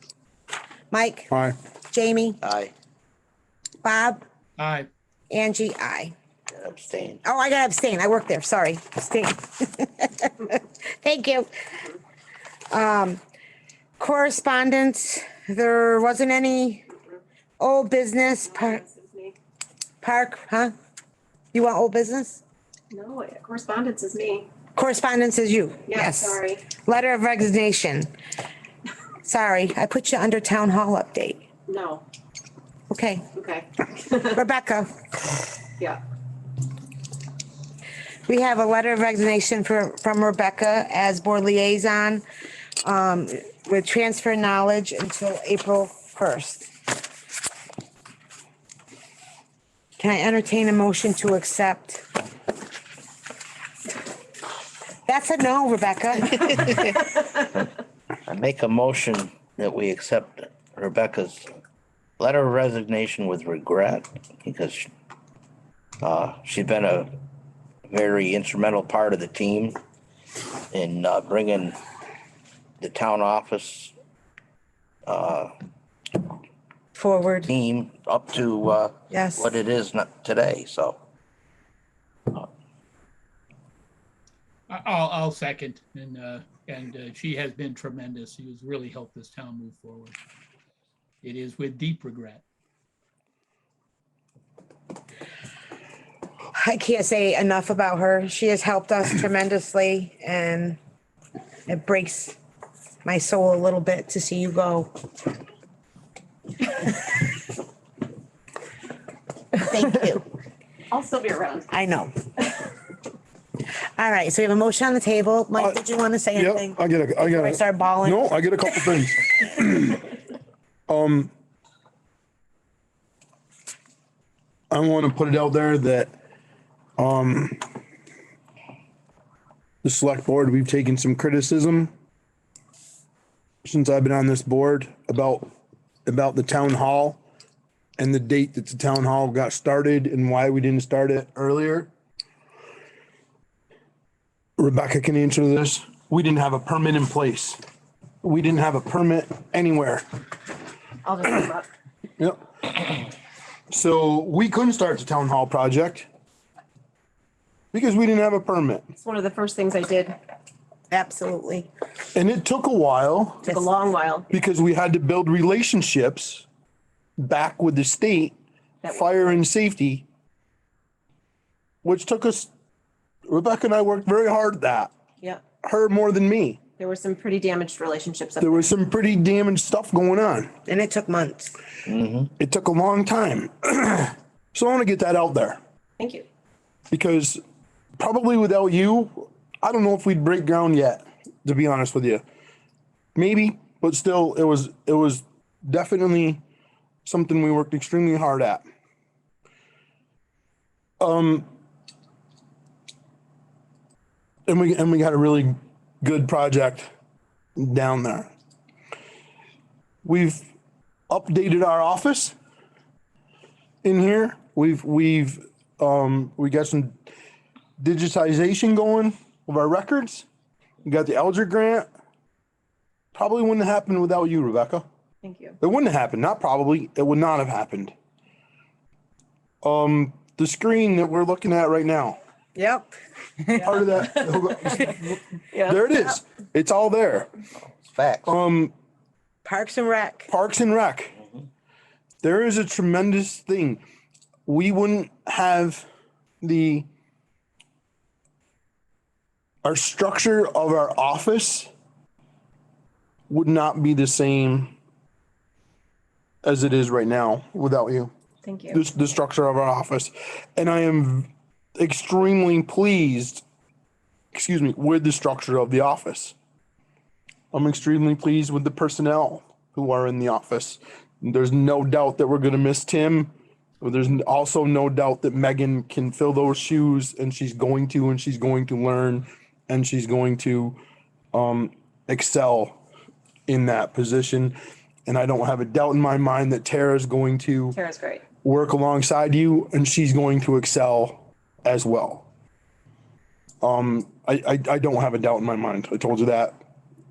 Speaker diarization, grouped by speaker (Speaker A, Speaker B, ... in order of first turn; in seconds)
Speaker A: 0.9-1.3, 1.9-2.4, 3.8-4.2, 5.3-6.1, 7.2-11.5, 12.7-13.2, 14.0-16.9, 17.6-18.8, 20.0-20.7, 21.5-22.4, 24.8-28.1, 29.2-31.5, 32.9-33.3, 34.1-34.9, 38.3-42.2, 42.8-46.7, 50.0-52.0, 55.1-57.0, 76.9-77.5, 79.1-79.5, 96.5-100.8, 101.7-102.4, 103.0-104.9, 109.6-110.3, 111.7-112.2, 114.0-118.3, 160.9-161.7, 180.7-181.6, 232.6-232.9, 239.4-240.3
Speaker B: 2.4-2.7, 6.5-7.2, 58.3-61.5, 62.2-64.9, 66.0-67.2, 67.9-69.8, 70.7-71.8, 72.8-73.9, 75.1-75.5, 77.5-81.0, 181.9-182.3, 237.6-238.3
Speaker C: 4.6-4.9, 84.7-90.2, 91.2-92.4
Speaker D: 18.4-19.4, 22.9-24.5, 25.9-26.7, 31.7-32.0, 33.3-34.4, 110.9-111.7, 151.0-151.7, 158.9-160.2, 163.4-164.3, 168.8-169.4, 176.8-178.7, 186.0-186.2, 225.2-225.6, 233.6-235.0, 235.5-235.8, 258.4-258.8, 287.7-288.2
Speaker E: 116.4-120.1, 120.9-121.3, 124.7-126.1, 127.0-127.7, 129.8-131.9, 133.6-135.5, 136.1-137.2, 138.0-141.9, 144.6-147.6, 148.2-150.0, 152.2-152.7, 153.7-156.1, 157.7-158.8, 162.2-163.6, 164.3-166.4, 167.2-168.3, 168.9-170.1, 171.8-172.5, 173.3-174.9, 175.6-176.6, 178.4-180.5, 182.4-185.6, 186.9-187.4, 188.0-192.2, 193.2-196.4, 197.1-198.6, 201.0-201.5, 204.5-206.9, 207.6-208.3, 210.0-210.5, 211.1-212.3, 213.8-217.0, 217.8-220.2, 220.8-221.9, 223.2-224.9, 225.6-227.9, 229.6-232.2, 233.6-237.3, 238.3-238.7, 240.3-241.2, 242.2-243.8, 244.5-245.8, 246.4-246.9, 249.6-251.7, 253.3-254.7, 256.4-258.1, 258.7-263.4, 264.3-266.4, 267.5-280.8, 281.3-282.8, 283.5-284.6, 285.1-287.8, 288.4-292.3, 293.6-296.6